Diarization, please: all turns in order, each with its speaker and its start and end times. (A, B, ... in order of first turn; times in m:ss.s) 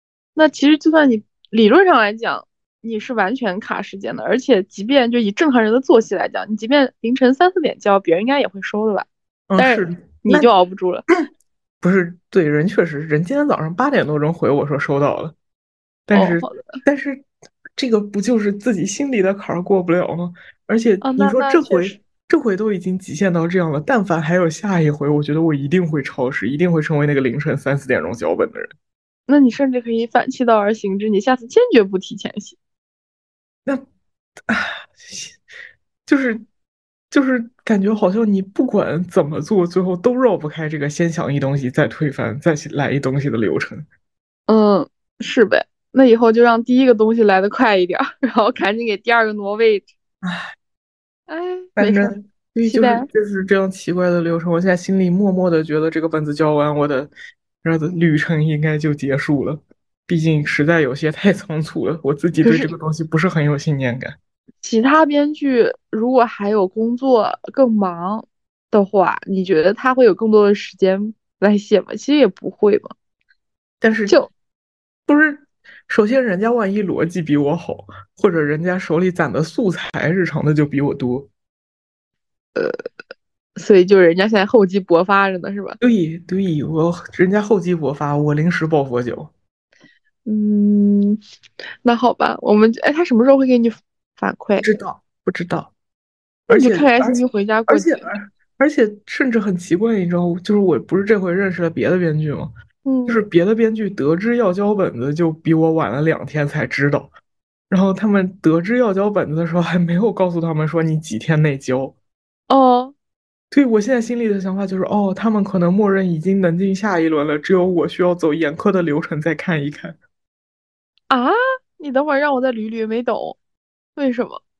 0:00.4-0:09.1 A
0:09.5-0:10.5 B
0:09.6-0:11.0 A
0:11.8-0:15.4 B
0:16.1-0:17.3 B
0:16.1-0:16.8 A
0:17.8-0:28.7 B
0:21.0-0:22.0 A
0:29.3-0:32.6 A
0:34.5-0:35.4 B
0:36.1-0:36.4 B
0:37.1-0:43.9 B
0:44.5-0:49.9 A
0:50.2-0:50.5 B
0:51.3-0:53.1 A
0:51.8-0:57.1 B
0:57.6-1:04.2 B
1:02.4-1:02.7 A
1:04.6-1:12.9 A
1:13.8-1:14.2 B
1:15.1-1:21.3 B
1:23.6-1:25.8 A
1:25.8-1:29.3 B
1:30.2-1:31.2 A
1:31.8-1:34.7 A
1:34.6-1:35.7 B
1:36.5-1:42.5 B
1:36.5-1:38.1 A
1:42.8-1:43.2 A
1:43.1-1:47.1 B
1:47.7-1:52.0 B
1:52.5-1:52.9 A
1:53.5-2:00.0 B
2:01.1-2:03.4 A
2:04.0-2:04.4 A